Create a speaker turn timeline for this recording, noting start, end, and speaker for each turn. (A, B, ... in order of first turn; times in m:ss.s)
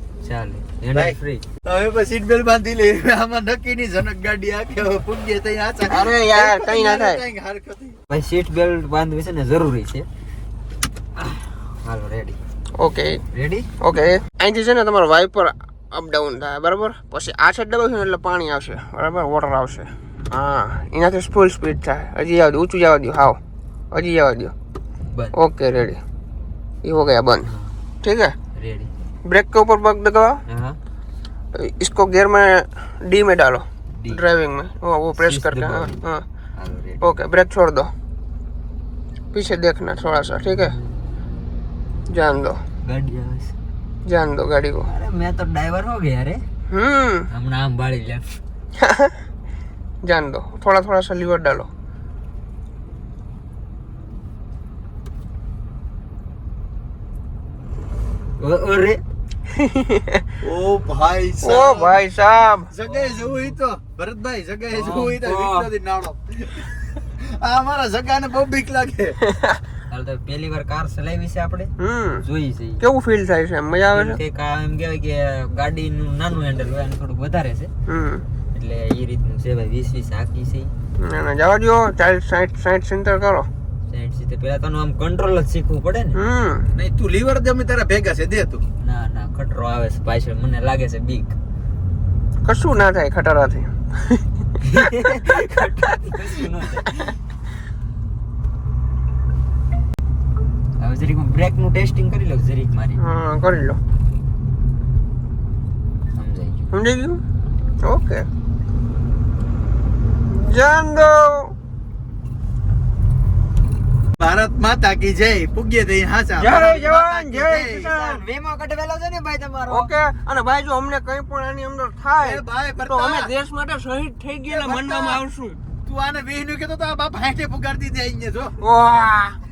0:00.2-0:01.4 A
0:00.9-0:08.0 B
0:05.9-0:07.2 C
0:08.1-0:10.1 A
0:11.2-0:12.4 A
0:12.8-0:13.2 C
0:13.3-0:13.7 A
0:13.8-0:23.4 C
0:23.9-0:24.5 C
0:25.4-0:26.0 C
0:26.8-0:27.5 C
0:28.0-0:28.4 C
0:28.6-0:28.9 A
0:29.3-0:30.4 C
0:30.5-0:30.8 A
0:31.6-0:36.2 C
0:35.2-0:35.9 A
0:36.6-0:37.2 A
0:37.0-0:37.9 C
0:39.3-0:40.8 C
0:42.1-0:42.6 C
0:42.9-0:43.5 A
0:44.1-0:44.9 C
0:44.8-0:46.4 A
0:46.7-0:47.3 C
0:47.3-0:48.3 A
0:48.8-0:49.1 C
0:50.0-0:51.7 C
0:58.4-0:59.0 A
0:59.5-1:00.2 C
1:00.4-1:02.0 B
1:01.4-1:02.7 C
1:02.7-1:09.2 B
1:03.1-1:03.5 A
1:04.7-1:05.7 A
1:09.3-1:09.6 C
1:09.9-1:12.8 A
1:11.8-1:12.2 C
1:12.8-1:14.2 C
1:13.9-1:17.7 A
1:17.9-1:18.2 C
1:18.5-1:20.7 A
1:21.0-1:23.5 C
1:23.9-1:26.2 A
1:26.2-1:26.6 C
1:26.7-1:28.6 B
1:28.8-1:31.4 A
1:32.4-1:34.2 C
1:34.6-1:37.1 A
1:40.8-1:43.0 A
1:43.0-1:43.8 C
1:46.2-1:46.7 A
1:46.7-1:47.2 C
1:47.8-1:48.3 C
1:50.3-1:51.5 C
1:54.2-1:58.0 B
1:56.4-1:59.9 A
1:59.7-2:05.6 C
2:02.2-2:03.3 B
2:04.5-2:05.2 B
2:05.9-2:08.5 B
2:08.6-2:09.4 C